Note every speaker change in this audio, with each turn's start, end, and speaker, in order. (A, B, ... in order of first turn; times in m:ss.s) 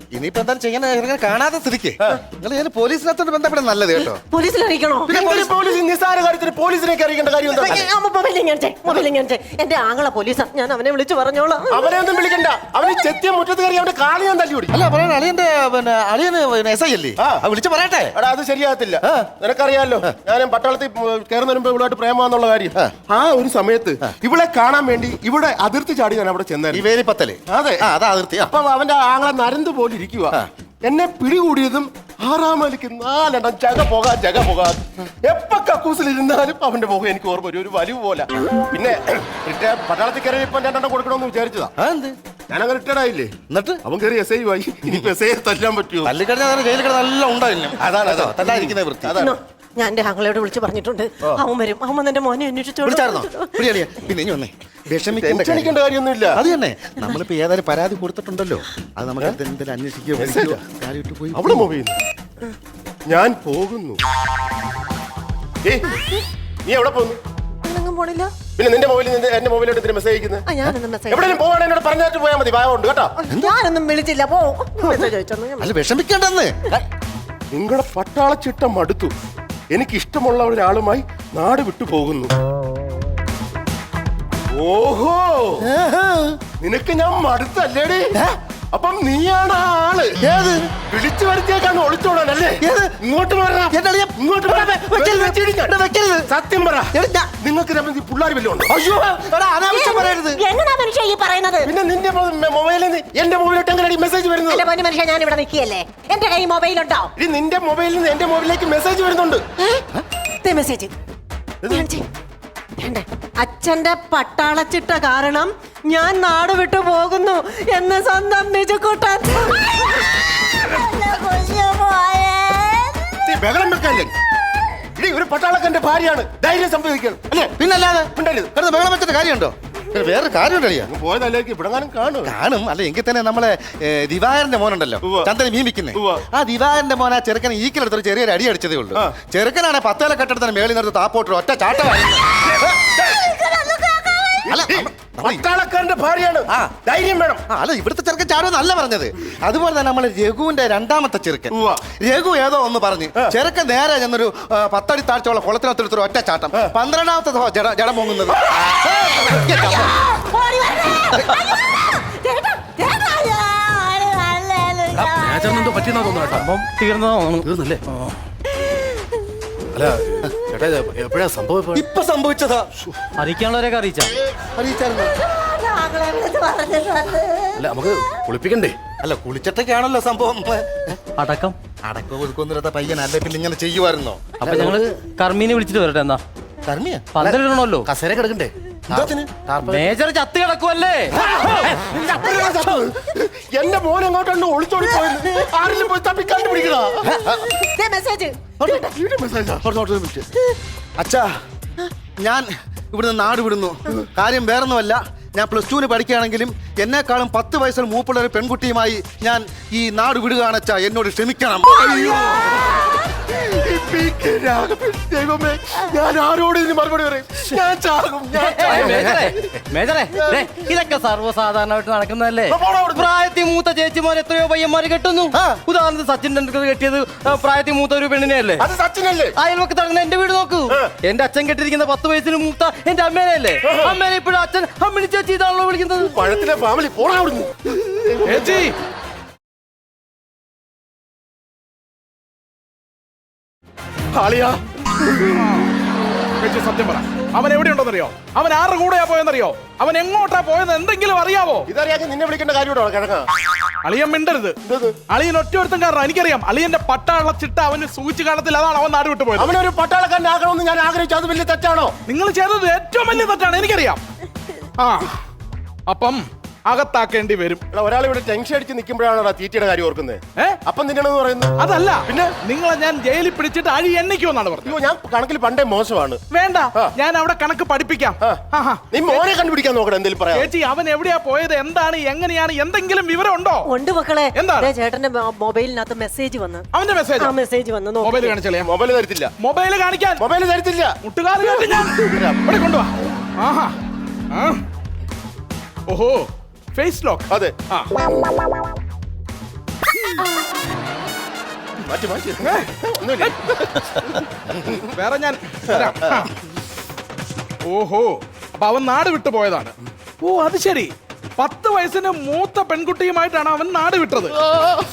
0:00.1-0:04.2 A
0:04.2-0:05.4 B
0:05.1-0:05.5 A
0:05.1-0:07.9 C
0:07.5-0:12.0 B
0:11.7-0:14.7 C
0:14.7-0:18.2 A
0:17.2-0:17.4 C
0:18.1-0:26.8 C
0:26.7-0:28.5 A
0:27.5-0:27.8 C
0:28.5-0:41.7 C
0:41.8-0:42.2 A
0:42.5-0:46.1 C
0:43.5-0:43.8 A
0:46.0-0:49.2 A
0:47.8-0:49.4 C
0:49.2-0:53.8 B
0:52.8-0:55.8 A
0:55.2-0:56.4 C
0:56.3-1:01.7 A
1:00.2-1:00.6 C
1:01.3-1:02.0 C
1:03.0-1:04.0 C
1:06.6-1:07.2 C
1:07.6-1:08.3 B
1:08.6-1:10.4 C
1:10.4-1:11.4 B
1:11.1-1:13.1 C
1:13.2-1:15.7 B
1:15.6-1:16.5 A
1:17.5-1:19.1 C
1:19.7-1:22.3 C
1:24.5-1:25.7 C
1:25.6-1:26.4 A
1:26.6-1:28.2 C
1:28.7-1:30.2 C
1:30.2-1:30.7 A
1:30.9-1:35.7 C
1:32.6-1:33.0 A
1:33.7-1:36.3 A
1:36.3-1:38.7 C
1:36.9-1:37.3 A
1:38.6-1:40.4 A
1:39.7-1:41.7 B
1:41.6-1:44.6 C
1:44.5-1:47.1 B
1:47.2-1:49.4 C
1:49.6-1:49.8 B
1:50.4-1:50.9 B
1:51.6-1:52.0 B
1:52.8-2:03.2 B
2:03.2-2:04.1 C
2:05.0-2:07.5 C
2:07.3-2:10.9 A
2:08.2-2:08.5 C
2:10.9-2:12.3 C
2:12.2-2:22.8 A
2:15.0-2:15.3 C
2:15.9-2:16.2 C
2:23.0-2:24.5 B
2:24.5-2:25.4 A
2:24.5-2:27.4 C
2:27.5-2:40.0 A
2:31.5-2:31.8 C
2:39.3-2:46.0 B
2:45.3-2:46.4 C
2:45.4-2:48.1 D
2:47.4-2:47.8 C
2:48.6-2:49.0 B
2:49.7-2:51.8 C
2:51.7-2:52.7 A
2:53.2-2:54.1 D
2:54.4-2:55.1 A
2:55.2-2:57.7 B
2:57.6-2:58.8 C
2:59.0-3:01.0 A
3:01.2-3:01.5 D
3:01.8-3:04.8 A
3:04.4-3:06.2 D
3:06.6-3:07.2 A
3:07.1-3:07.9 D
3:07.8-3:09.8 C
3:08.9-3:09.2 A
3:09.6-3:11.2 D
3:11.1-3:17.1 C
3:17.0-3:17.5 A
3:17.1-3:18.8 B
3:18.6-3:18.8 A
3:18.7-3:19.7 C
3:19.6-3:20.3 A
3:21.0-3:21.3 A
3:22.2-3:31.8 A
3:31.7-3:39.6 C
3:38.4-3:48.6 D
3:38.6-3:39.2 A
3:42.5-3:43.1 C
3:48.6-3:49.4 C
3:49.4-3:56.2 D
3:53.6-3:54.0 C
3:56.1-3:58.5 C
3:58.2-3:58.8 E
4:04.1-4:05.4 C
4:05.3-4:05.7 E
4:06.4-4:11.7 E
4:11.7-4:13.3 C
4:13.8-4:14.6 E
4:14.6-4:15.0 C
4:15.1-4:19.5 E
4:19.4-4:22.0 C
4:22.1-4:24.0 E
4:24.8-4:25.2 E
4:25.9-4:27.6 E
4:27.7-4:31.5 C
4:31.6-4:34.8 E
4:32.1-4:32.3 C
4:34.6-4:36.2 C
4:36.3-4:39.2 E
4:38.9-4:40.5 C
4:40.3-4:43.7 E
4:43.6-4:46.6 B
4:44.3-4:44.7 E
4:46.7-4:47.3 E
4:47.2-4:48.3 B
4:48.0-4:48.7 E
4:48.6-4:49.3 C
4:49.4-4:50.2 E
4:50.2-4:51.0 C
4:51.0-4:53.8 E
4:52.0-4:52.5 C
4:54.3-4:54.6 E
4:55.9-4:57.9 E
5:01.8-5:03.7 C
5:03.2-5:04.2 E
5:04.8-5:06.3 E
5:07.6-5:14.4 E
5:14.5-5:14.8 C